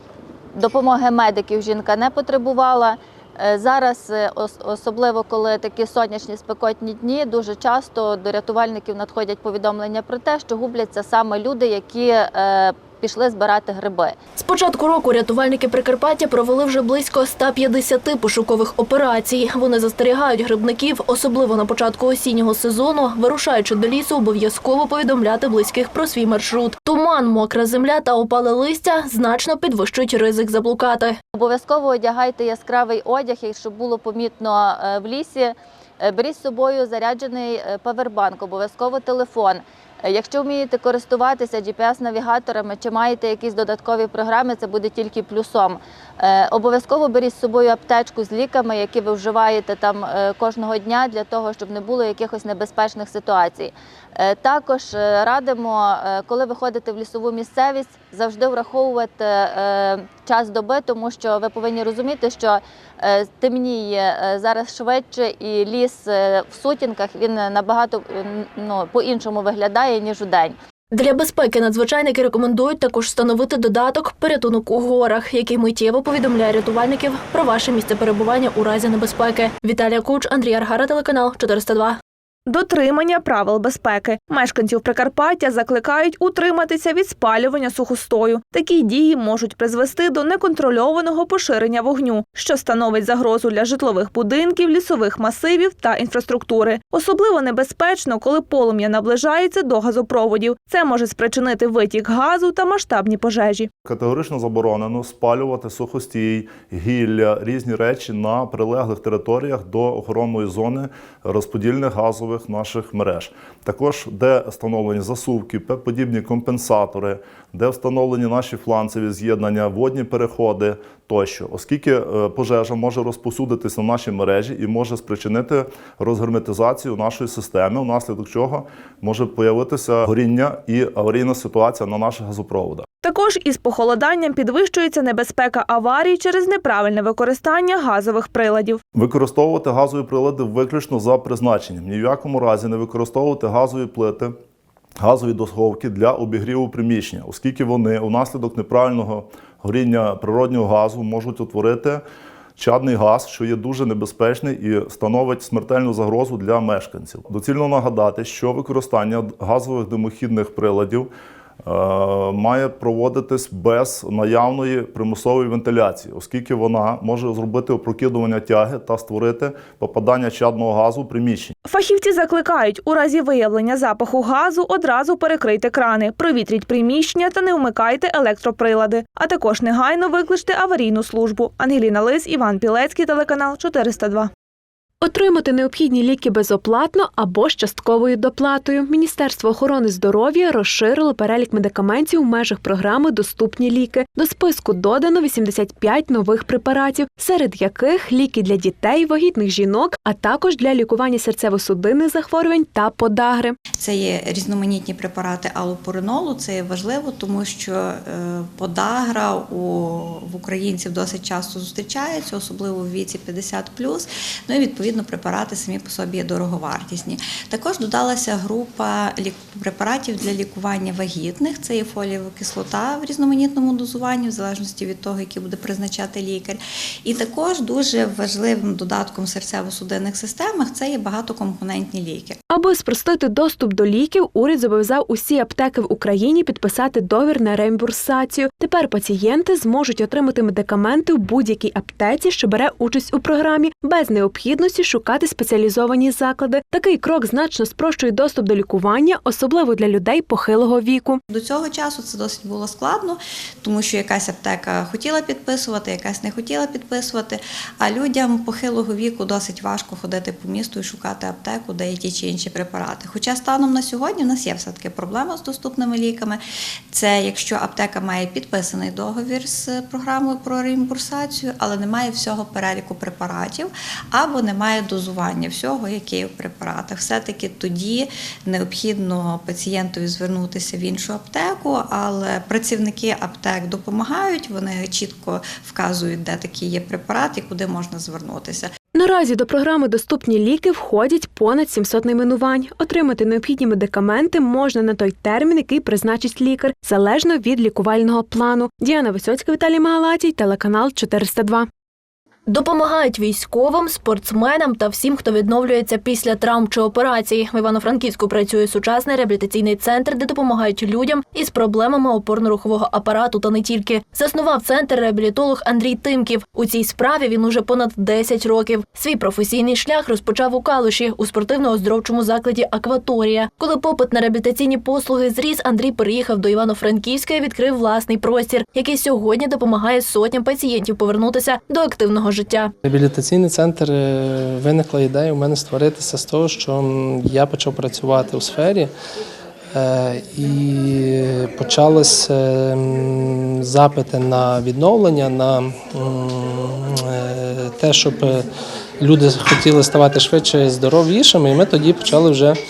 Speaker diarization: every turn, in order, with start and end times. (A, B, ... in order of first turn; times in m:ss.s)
0:00.6-0:14.2 A
0:14.4-0:31.2 B
0:31.3-1:10.5 A
1:10.9-1:22.0 B
1:22.5-1:43.7 C
1:43.8-2:12.8 D
2:13.0-2:18.8 C
2:18.9-2:24.3 D
2:25.0-2:32.0 D
2:32.6-2:41.1 D
2:41.6-2:51.5 D
2:51.7-3:04.3 C
3:05.0-3:23.6 E
3:23.8-3:52.4 F
3:52.5-4:11.2 E
4:11.3-4:26.4 F
4:26.9-4:48.7 F
4:48.9-5:01.7 E
5:02.5-5:32.7 B
5:32.8-5:38.9 G
5:39.7-5:48.4 G
5:49.0-5:52.6 G